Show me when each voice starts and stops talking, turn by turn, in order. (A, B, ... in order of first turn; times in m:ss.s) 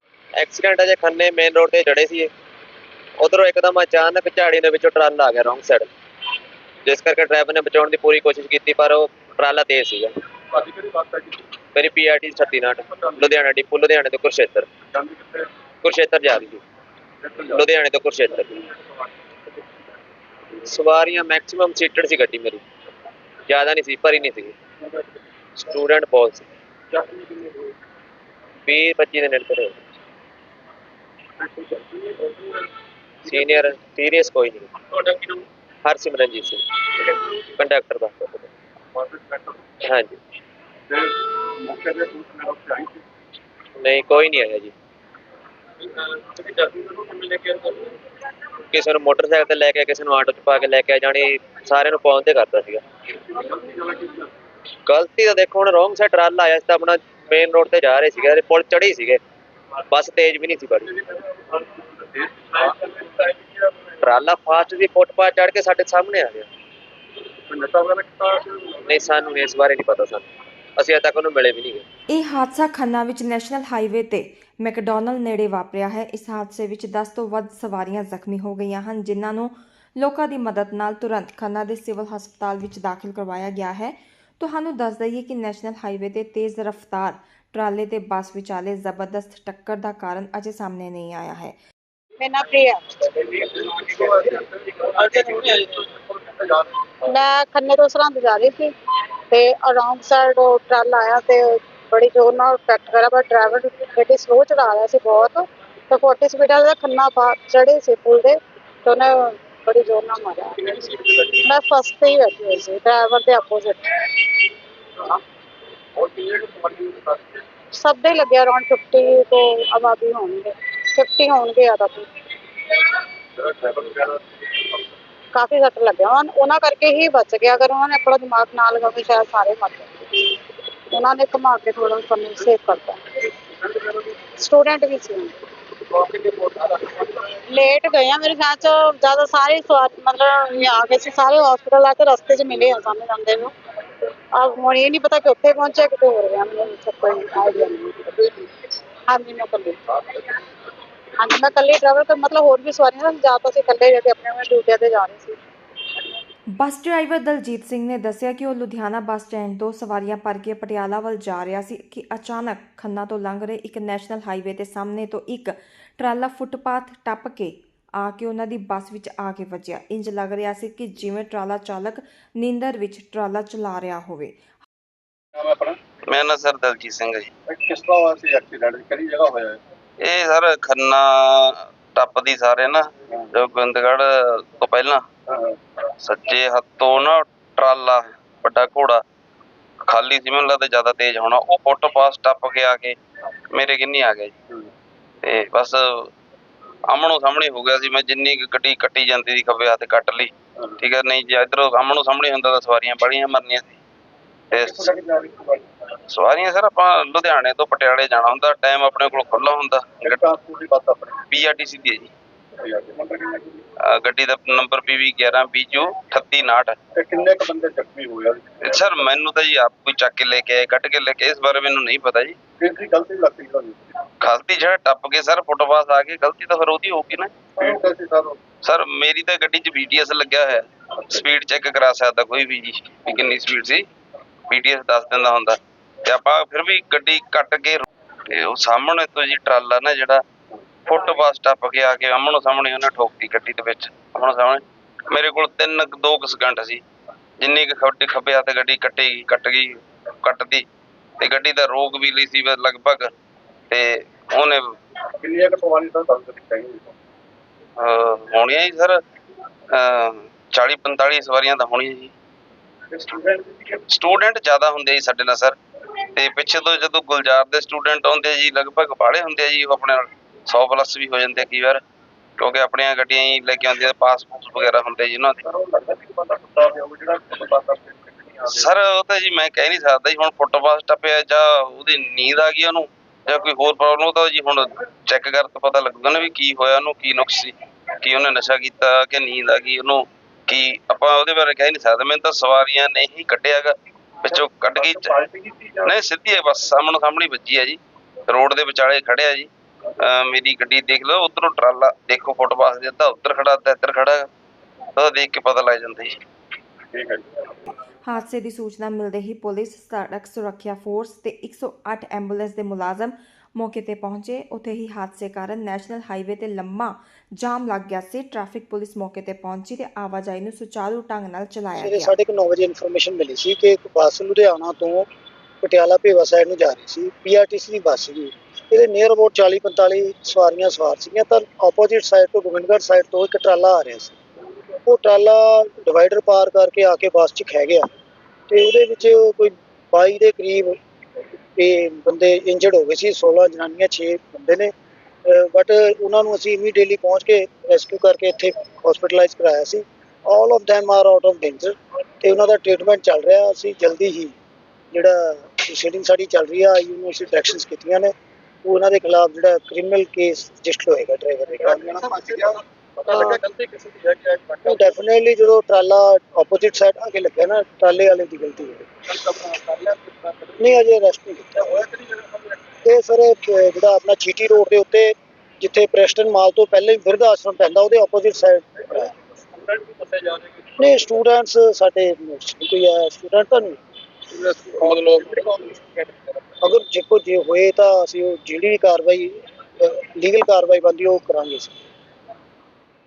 0:00.4-0:02.3 A
0:03.2-0:05.9 A
0:06.8-0:10.1 A
0:10.5-0:11.4 B
0:11.7-0:14.7 A
0:14.9-0:15.4 B
0:15.8-0:16.6 A
0:17.2-0:17.6 B
0:17.5-0:18.6 A
0:20.6-0:22.6 A
0:23.5-0:24.5 A
0:25.6-0:26.5 A
0:27.2-0:27.7 B
0:28.6-0:29.8 A
0:31.7-0:32.3 B
0:33.2-0:38.5 A
0:39.0-0:39.6 B
0:39.8-0:40.2 A
0:40.9-0:43.0 B
0:43.8-0:44.7 A
0:46.2-0:47.9 A
0:48.7-0:52.8 A
0:53.3-0:54.3 B
0:54.8-0:59.2 A
0:59.9-1:00.9 A
1:01.5-1:03.3 B
1:04.0-1:06.5 A
1:07.5-1:08.9 B
1:08.8-1:10.2 A
1:10.8-1:11.8 A
1:12.1-1:31.6 C
1:32.2-1:34.2 D
1:33.5-1:35.6 B
1:35.2-1:35.5 D
1:37.0-1:38.7 D
1:39.3-1:54.5 D
1:56.0-1:57.4 B
1:57.7-2:03.0 D
2:03.4-2:04.2 B
2:05.3-2:13.3 D
2:14.4-2:15.4 D
2:16.2-2:16.5 B
2:17.0-2:23.5 D
2:24.3-2:28.3 D
2:29.0-2:30.4 D
2:31.2-2:35.4 D
2:36.5-2:54.4 C
2:55.3-2:55.8 B
2:56.1-2:57.3 E
2:57.5-2:59.6 B
3:00.0-3:05.0 E
3:06.0-3:09.0 E
3:09.9-3:13.0 E
3:13.5-3:14.3 E
3:15.2-3:16.1 E
3:16.9-3:23.8 E
3:24.5-3:25.0 E
3:24.6-3:25.6 B
3:26.1-3:30.3 E
3:30.0-3:31.2 B
3:31.3-3:32.1 E
3:32.6-3:33.6 B
3:33.8-3:36.8 E
3:36.9-3:38.8 B
3:38.6-3:42.4 E
3:42.6-3:43.9 B
3:44.2-3:47.3 E
3:47.6-3:48.4 B
3:48.6-3:53.8 E
3:54.5-4:00.2 E
4:00.8-4:06.8 E
4:07.4-4:10.6 E
4:11.2-4:13.1 E
4:13.7-4:14.6 E
4:15.2-4:16.9 B
4:17.8-4:19.0 E
4:19.7-4:22.1 E
4:22.9-4:23.8 B
4:23.9-4:25.6 E
4:26.1-4:31.8 E
4:32.4-4:35.4 E
4:35.4-4:38.7 B
4:38.5-4:55.1 E
4:54.7-4:55.9 B
4:55.8-4:59.5 E
5:00.0-5:04.3 E
5:05.0-5:06.2 E
5:06.9-5:07.4 B
5:08.0-5:22.1 C
5:21.8-5:25.1 F
5:25.6-5:34.2 F
5:34.8-5:37.8 F
5:38.5-5:40.7 F
5:41.6-5:44.7 F
5:45.2-5:54.3 F
5:54.9-5:58.1 F
5:58.6-6:02.6 F
6:01.6-6:05.0 B
6:04.6-6:08.8 F
6:09.1-6:10.7 B
6:10.6-6:11.6 F
6:11.6-6:12.6 B
6:12.8-6:19.1 F
6:19.5-6:20.9 B
6:20.8-6:23.8 F
6:24.4-6:26.1 B
6:26.6-6:29.3 F
6:29.8-6:31.8 F